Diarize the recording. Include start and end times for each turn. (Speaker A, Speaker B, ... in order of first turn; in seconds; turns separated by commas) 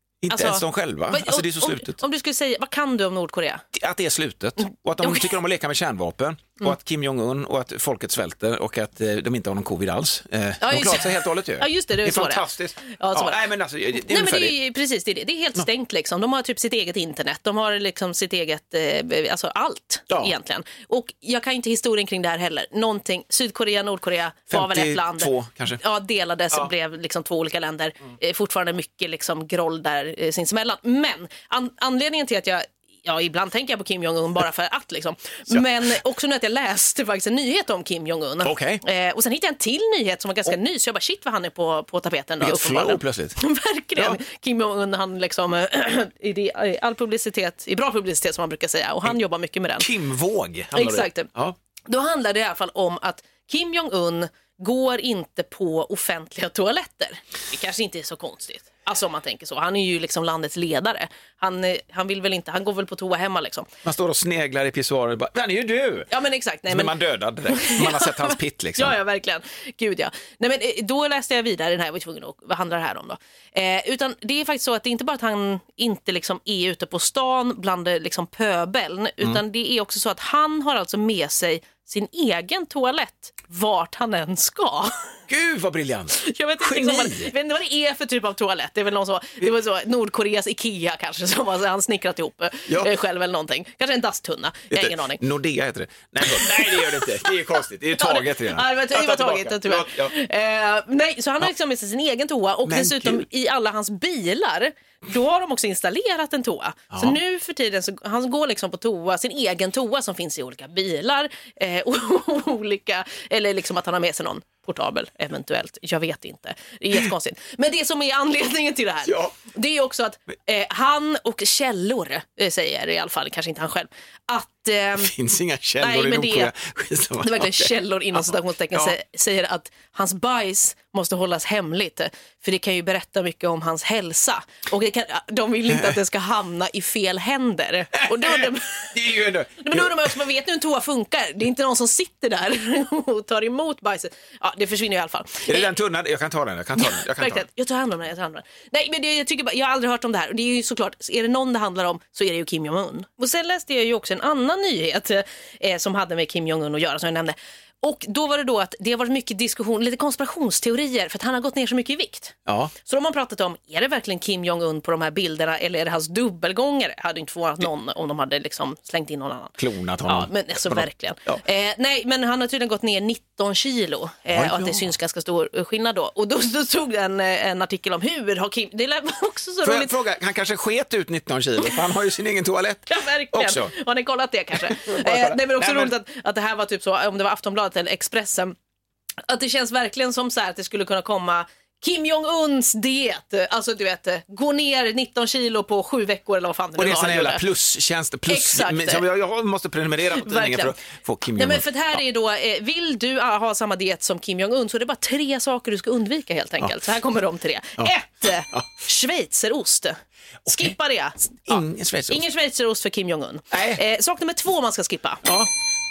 Speaker A: 0.2-2.0, Speaker B: 0.3-3.6, Speaker A: 3.8-14.6, Speaker B: 5.0-5.3, Speaker B: 10.6-49.9, Speaker A: 24.5-25.8, Speaker A: 35.5-36.0, Speaker A: 38.4-38.8, Speaker A: 42.4-43.4, Speaker A: 49.8-51.6, Speaker B: 50.7-51.3, Speaker B: 51.9-63.7, Speaker A: 63.8-66.2, Speaker B: 66.1-85.1, Speaker A: 66.7-69.0, Speaker A: 85.3-87.3, Speaker B: 86.1-95.2, Speaker A: 94.7-100.1, Speaker B: 96.3-97.3, Speaker B: 98.0-125.1, Speaker A: 102.7-103.2, Speaker A: 106.9-107.2, Speaker A: 119.1-119.3, Speaker A: 125.0-128.9, Speaker B: 125.8-126.5, Speaker B: 127.2-138.9, Speaker A: 138.1-140.1, Speaker B: 139.6-145.7, Speaker A: 145.5-147.4, Speaker B: 146.8-180.0, Speaker A: 162.5-162.7, Speaker A: 169.6-171.4, Speaker A: 174.3-174.9, Speaker A: 179.6-183.7, Speaker B: 182.9-188.6, Speaker A: 184.6-185.9, Speaker B: 189.3-197.4, Speaker A: 196.8-202.0, Speaker B: 198.3-199.1, Speaker B: 200.1-200.8, Speaker B: 201.3-215.3, Speaker A: 211.5-212.2, Speaker A: 213.5-213.8